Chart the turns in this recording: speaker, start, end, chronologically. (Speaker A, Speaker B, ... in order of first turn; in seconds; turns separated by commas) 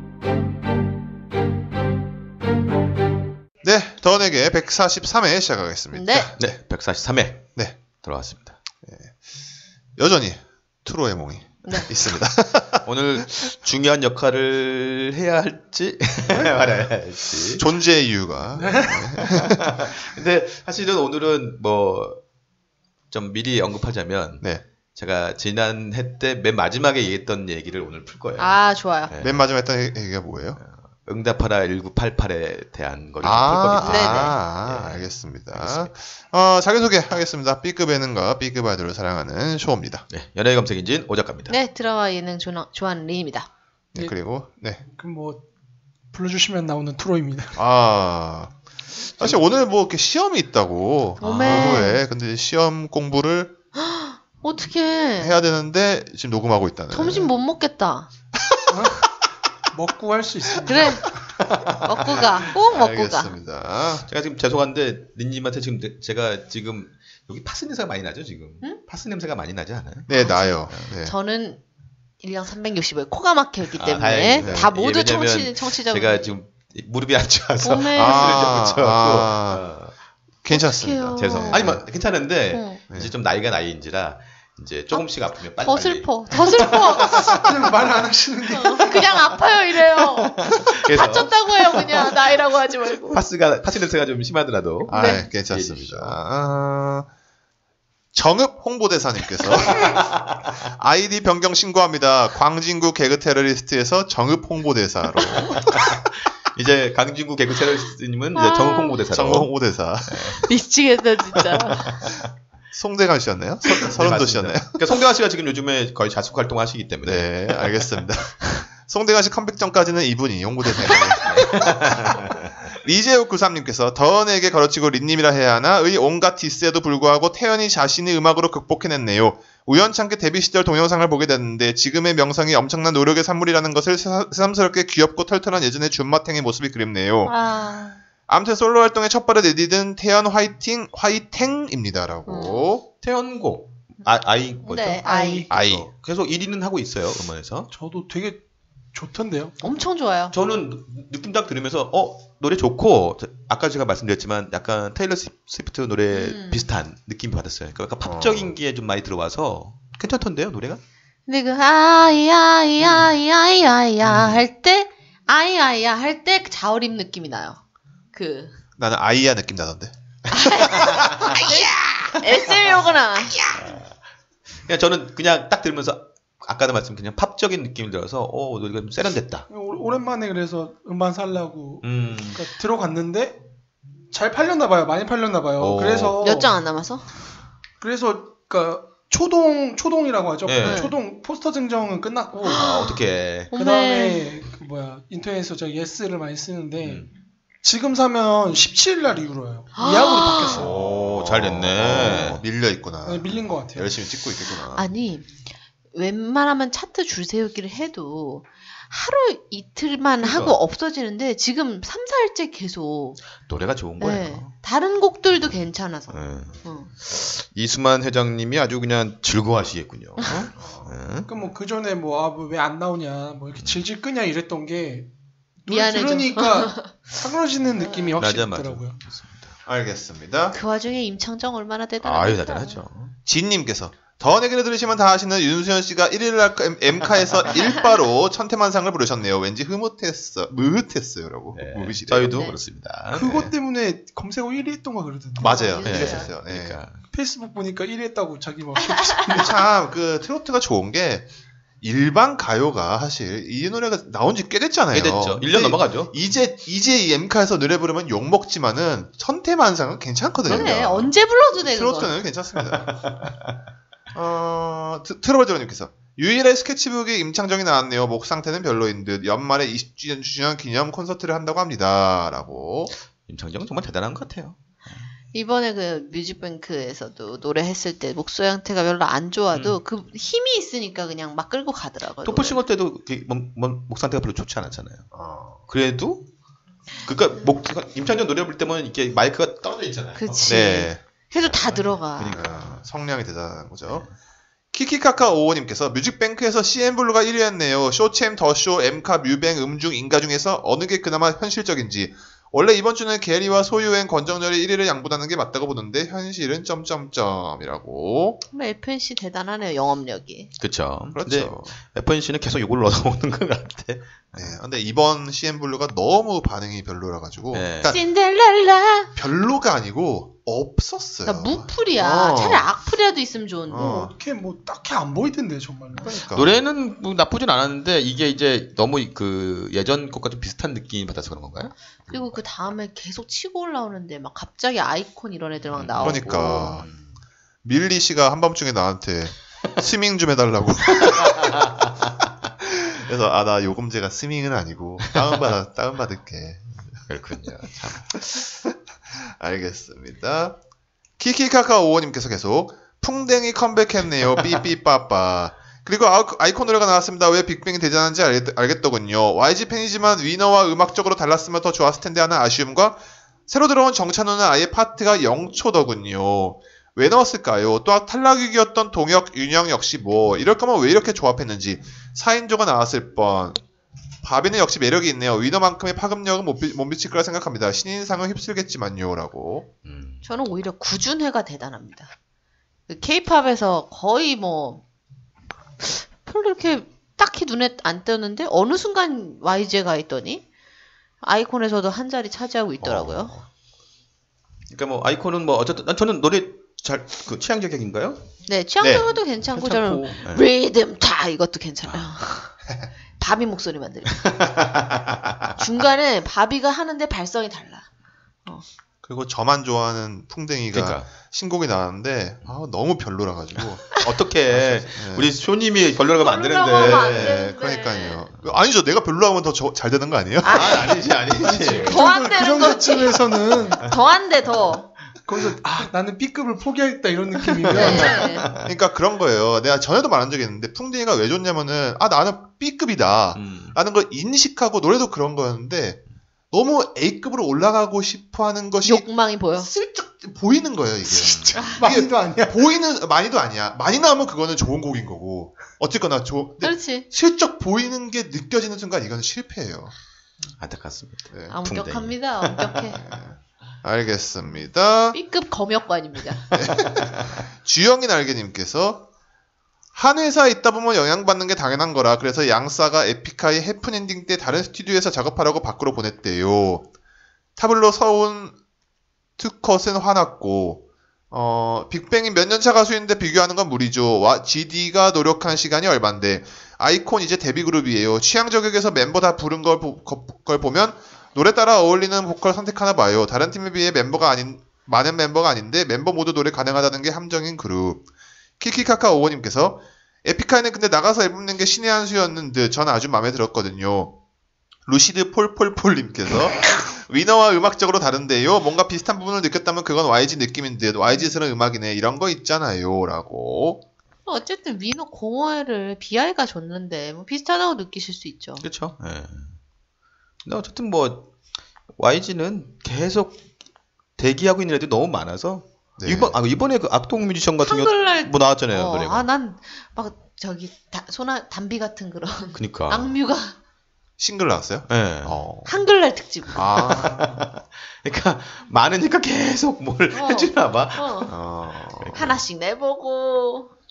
Speaker A: 3.6-6.3, Speaker B: 5.9-6.3, Speaker C: 6.4-8.6, Speaker A: 8.8-9.2, Speaker A: 10.0-13.2, Speaker C: 12.8-17.6, Speaker A: 17.6-19.6, Speaker D: 18.6-19.1, Speaker C: 18.9-22.2, Speaker C: 23.1-29.4, Speaker B: 28.4-29.1, Speaker A: 29.2-30.6, Speaker C: 30.6-35.9, Speaker A: 33.2-40.0, Speaker B: 33.9-34.4, Speaker C: 40.1-41.6, Speaker B: 41.5-43.5, Speaker A: 44.0-44.8, Speaker D: 44.9-45.4, Speaker D: 46.1-47.6, Speaker A: 47.6-48.6, Speaker A: 49.2-53.6, Speaker B: 51.2-52.0, Speaker C: 51.2-51.8, Speaker B: 53.8-55.4, Speaker A: 55.2-57.3, Speaker B: 56.9-58.1, Speaker D: 58.7-59.1, Speaker D: 59.7-61.2, Speaker B: 60.6-61.1, Speaker C: 61.4-62.3, Speaker B: 61.8-63.4, Speaker A: 62.5-64.1, Speaker C: 64.1-70.1, Speaker A: 70.1-71.1, Speaker B: 70.1-71.6, Speaker B: 72.2-76.3, Speaker C: 73.8-79.9, Speaker A: 74.4-74.7, Speaker B: 77.6-78.6, Speaker A: 78.0-79.7, Speaker A: 80.4-81.8, Speaker B: 80.5-81.7, Speaker C: 81.2-87.4, Speaker B: 82.5-82.8, Speaker B: 84.9-87.2, Speaker D: 87.3-89.1, Speaker B: 88.5-93.2, Speaker C: 89.9-92.4, Speaker C: 93.1-96.2, Speaker A: 94.9-97.1, Speaker B: 94.9-95.3, Speaker A: 98.1-100.0, Speaker C: 99.7-100.6, Speaker A: 100.7-105.9, Speaker C: 105.5-109.5, Speaker B: 108.3-109.0, Speaker A: 109.1-110.4, Speaker C: 110.1-110.4, Speaker B: 110.5-112.0, Speaker C: 111.4-112.1, Speaker A: 112.7-114.8, Speaker C: 113.7-117.7, Speaker A: 117.0-121.7, Speaker C: 121.2-122.5, Speaker A: 122.8-137.3, Speaker B: 137.3-138.0, Speaker A: 138.3-142.8, Speaker B: 142.3-142.7, Speaker C: 143.0-147.7, Speaker B: 144.7-145.5, Speaker D: 145.0-145.5, Speaker A: 145.5-145.9, Speaker D: 147.7-148.4, Speaker D: 148.9-149.6, Speaker B: 149.6-150.3, Speaker C: 150.3-160.8, Speaker B: 156.1-156.7, Speaker A: 158.0-158.6, Speaker B: 161.3-167.6, Speaker C: 164.0-164.4, Speaker B: 168.1-168.6, Speaker A: 168.8-171.4, Speaker B: 170.3-173.4, Speaker C: 170.7-171.6, Speaker C: 173.4-174.0, Speaker C: 174.7-179.5, Speaker D: 179.5-183.4, Speaker C: 181.8-182.4, Speaker D: 184.1-186.6, Speaker C: 185.6-186.2, Speaker B: 186.2-187.1, Speaker D: 187.8-192.7, Speaker C: 190.4-190.9, Speaker B: 190.6-191.0, Speaker B: 192.4-193.0, Speaker C: 192.5-193.5, Speaker B: 193.5-194.3, Speaker D: 193.5-197.1, Speaker C: 196.8-197.1, Speaker D: 197.6-200.7, Speaker B: 199.8-200.6, Speaker A: 200.5-204.9, Speaker C: 200.6-202.4, Speaker D: 203.1-204.0, Speaker B: 204.7-205.4, Speaker B: 205.9-213.2, Speaker C: 210.2-210.6, Speaker C: 213.4-214.5, Speaker B: 214.0-216.9, Speaker C: 216.1-221.3, Speaker A: 220.6-221.0, Speaker D: 221.3-225.1, Speaker C: 223.6-223.9, Speaker D: 225.7-229.0, Speaker B: 225.7-226.9, Speaker B: 227.8-228.2, Speaker C: 228.2-229.5, Speaker A: 229.7-230.6, Speaker B: 230.5-232.8, Speaker C: 232.0-233.1, Speaker A: 233.3-242.5, Speaker C: 241.5-243.5, Speaker D: 243.1-245.6, Speaker A: 245.4-246.8, Speaker B: 245.4-246.3, Speaker C: 245.8-247.0, Speaker D: 247.1-249.6, Speaker A: 249.4-251.3, Speaker A: 251.8-263.1, Speaker C: 254.9-256.1, Speaker B: 260.5-262.1, Speaker C: 262.6-263.6, Speaker A: 264.1-272.9, Speaker C: 273.3-275.1, Speaker B: 275.3-282.6, Speaker C: 279.5-279.8, Speaker C: 282.2-285.1, Speaker A: 285.1-285.6, Speaker C: 285.7-286.2, Speaker C: 287.0-290.6, Speaker B: 290.2-292.4, Speaker A: 290.5-291.0, Speaker C: 291.4-292.8, Speaker A: 292.3-294.1, Speaker A: 294.7-308.4, Speaker B: 308.5-310.5, Speaker C: 310.6-314.6, Speaker A: 311.1-311.8, Speaker A: 314.4-318.0, Speaker C: 317.5-317.9, Speaker B: 317.9-319.1, Speaker A: 319.1-322.7, Speaker B: 321.2-323.9, Speaker A: 323.7-324.1, Speaker D: 323.8-326.3, Speaker A: 326.0-326.6, Speaker C: 326.3-332.3, Speaker B: 332.1-336.7, Speaker C: 335.7-337.1, Speaker A: 336.0-336.9, Speaker A: 337.6-341.7, Speaker C: 341.1-342.1, Speaker A: 342.6-347.1, Speaker C: 345.1-345.5, Speaker C: 347.1-348.3, Speaker A: 348.1-350.6, Speaker A: 351.2-373.6, Speaker A: 374.2-379.7, Speaker C: 379.9-380.2, Speaker B: 380.2-382.1, Speaker B: 382.9-384.8, Speaker B: 385.8-390.4, Speaker B: 391.2-393.3, Speaker A: 392.8-393.5, Speaker C: 394.7-398.3, Speaker B: 398.5-402.5, Speaker A: 398.8-399.1, Speaker C: 399.5-400.4, Speaker C: 401.9-402.1, Speaker B: 403.2-404.3, Speaker C: 404.2-405.6, Speaker B: 405.6-407.9, Speaker A: 409.0-415.4, Speaker C: 410.7-411.1, Speaker C: 413.9-417.5, Speaker B: 416.2-418.2, Speaker A: 416.8-420.7, Speaker B: 420.4-421.0, Speaker C: 420.5-422.1, Speaker D: 421.3-423.9, Speaker B: 421.8-424.9, Speaker D: 425.3-428.3, Speaker C: 427.6-428.7, Speaker B: 427.7-428.5, Speaker A: 427.8-428.0, Speaker A: 428.6-449.9, Speaker C: 433.3-433.8, Speaker B: 438.8-439.7, Speaker C: 441.1-441.6, Speaker D: 441.7-442.7, Speaker B: 446.6-447.1, Speaker C: 450.6-452.9, Speaker B: 451.5-453.0, Speaker A: 453.0-455.2, Speaker B: 455.1-456.5, Speaker C: 456.5-457.4, Speaker A: 456.5-459.1, Speaker A: 459.9-466.9, Speaker A: 467.6-468.6, Speaker A: 469.4-488.1, Speaker A: 488.6-494.1, Speaker A: 494.9-503.8, Speaker B: 504.3-508.6, Speaker C: 508.6-509.6, Speaker C: 510.4-511.3, Speaker C: 511.9-513.5, Speaker C: 514.2-519.2, Speaker A: 516.0-516.4, Speaker B: 517.6-523.6, Speaker C: 522.5-523.1, Speaker A: 524.2-525.8, Speaker C: 524.9-525.4, Speaker B: 525.7-526.9, Speaker A: 526.5-527.4, Speaker C: 526.7-532.4, Speaker D: 526.9-527.4, Speaker B: 530.1-531.3, Speaker A: 531.3-532.3, Speaker B: 532.1-533.7